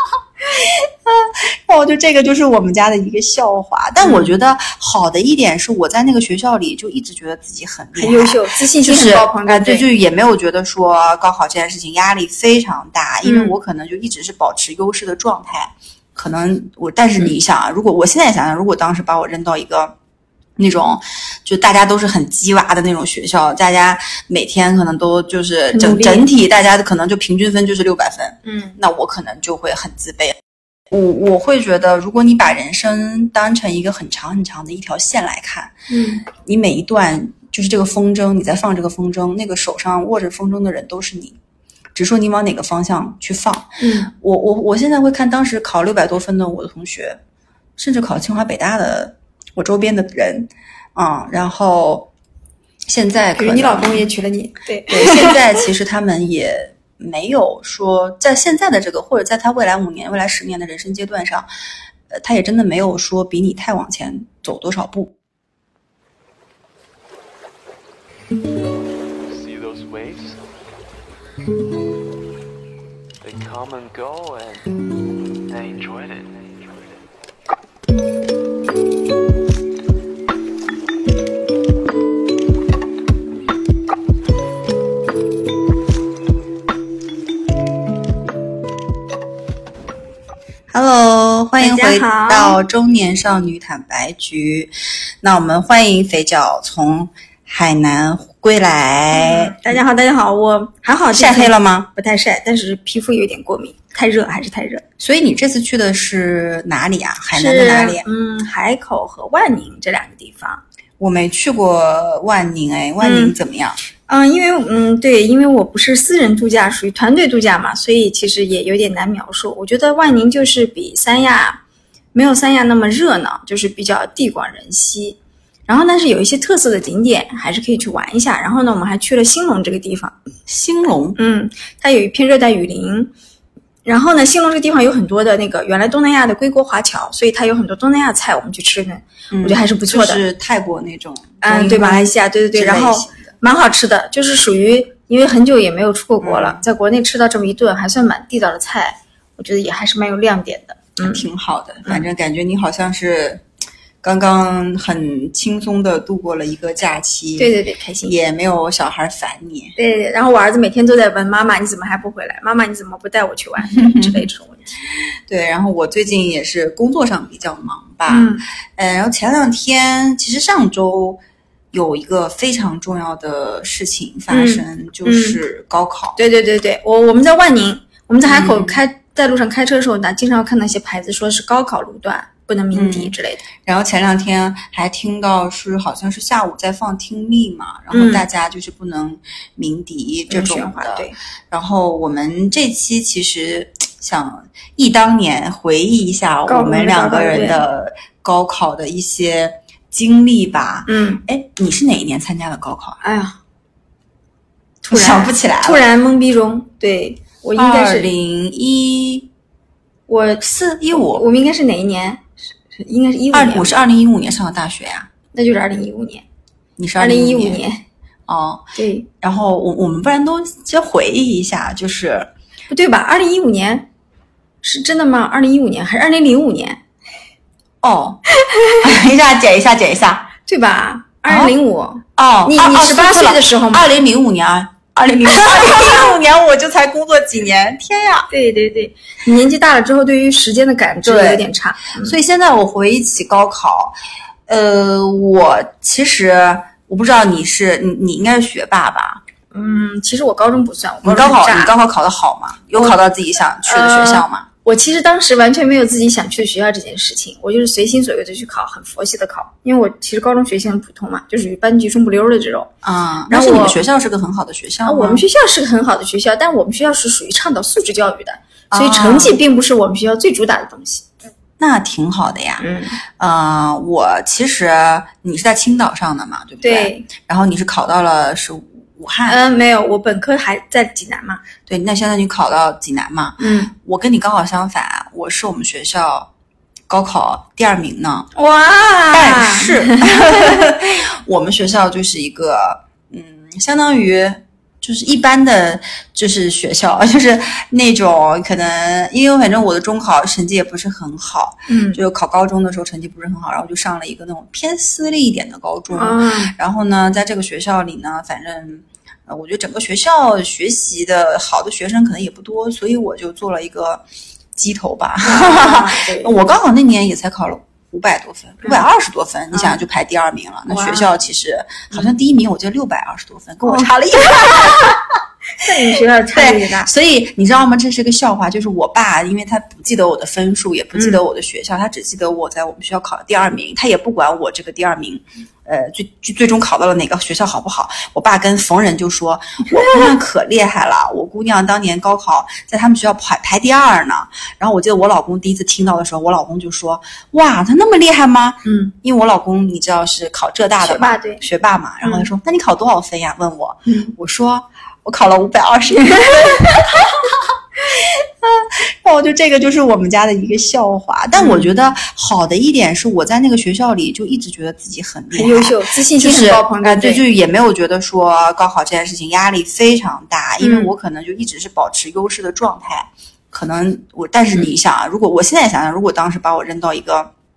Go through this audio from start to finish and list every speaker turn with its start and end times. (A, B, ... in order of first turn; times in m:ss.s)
0:00.5-0:19.9 A
0:04.0-0:04.4 B
0:08.0-0:09.9 B
0:13.2-0:13.6 B
0:20.6-0:30.4 A
0:25.7-0:26.3 B
0:28.5-0:28.8 B
0:30.9-0:35.8 A
0:35.9-0:36.2 B
0:36.3-0:41.4 A
0:42.0-0:47.2 A
0:43.8-0:44.1 B
0:47.8-0:52.1 A
0:52.9-0:54.0 A
0:53.4-0:55.4 B
0:54.9-1:01.5 A
1:02.1-1:05.1 A
1:09.2-1:10.4 C
1:13.2-1:14.7 C
1:15.5-1:17.0 C
1:30.7-1:39.8 A
1:31.6-1:32.6 B
1:39.1-1:44.8 B
1:41.1-1:41.9 A
1:45.0-1:48.0 A
1:47.3-1:50.6 B
1:51.0-1:53.8 A
1:53.0-1:53.4 B
1:54.1-2:01.6 B
2:02.1-2:10.2 B
2:10.5-2:11.2 A
2:11.2-2:13.1 B
2:13.8-2:20.2 B
2:19.3-2:23.4 A
2:21.4-2:31.2 B
2:26.2-2:26.6 A
2:31.0-2:33.4 A
2:34.0-2:39.8 A
2:37.4-2:38.2 B
2:39.8-2:44.7 B
2:43.6-2:44.3 A
2:45.3-2:51.2 A
2:48.1-2:48.4 B
2:51.7-2:56.2 A
2:54.3-2:55.4 B
2:56.2-3:03.5 B
2:58.3-2:58.8 A
3:02.7-3:23.0 A
3:07.9-3:08.3 B
3:10.3-3:11.2 B
3:16.5-3:17.6 B
3:20.9-3:21.2 B
3:23.0-3:23.4 B
3:24.8-3:25.8 A
3:24.9-3:28.1 B
3:27.6-3:29.3 A
3:30.1-3:33.9 B
3:30.4-3:31.3 A
3:33.3-3:35.1 A
3:35.3-3:36.2 B
3:36.8-3:37.6 A
3:37.0-3:37.8 B
3:38.3-3:38.6 A
3:38.8-3:39.1 B
3:39.2-3:42.3 A
3:42.7-3:43.9 B
3:44.6-3:46.8 B
3:47.8-3:48.2 A
3:48.4-3:48.8 B
3:48.8-3:50.3 A
3:50.4-3:53.8 B
3:51.3-3:51.6 A
3:52.2-3:58.3 A
3:55.2-3:56.2 B
3:58.3-4:02.2 B
4:01.0-4:04.0 A
4:04.5-4:09.2 A
4:09.5-4:11.7 B
4:11.0-4:14.5 A
4:13.6-4:22.7 B
4:22.8-4:25.2 A
4:23.3-4:23.8 B
4:24.9-4:31.1 B
4:28.7-4:29.4 A
4:31.6-4:32.7 A
4:32.6-4:33.0 B
4:33.2-4:39.4 A
4:36.6-4:37.1 B
4:39.3-4:41.4 B
4:41.7-4:46.3 A
4:43.4-4:43.7 B
4:46.9-4:48.3 A
4:48.4-4:50.8 B
4:49.1-5:14.0 A
5:01.7-5:02.0 B
5:05.9-5:06.5 B
5:14.6-5:25.0 A
5:15.2-5:16.3 B
5:19.5-5:19.8 B
5:20.7-5:21.1 B
5:23.6-5:25.0 B
5:25.6-5:26.9 B
5:26.3-6:17.3 A
5:31.0-5:31.2 B
5:39.8-5:40.0 B
5:48.6-5:48.9 B
5:50.8-5:51.4 B
5:52.0-5:52.3 B
5:53.9-5:54.2 B
5:56.0-5:56.9 B
6:01.4-6:01.7 B
6:05.3-6:07.2 B
6:10.6-6:10.9 B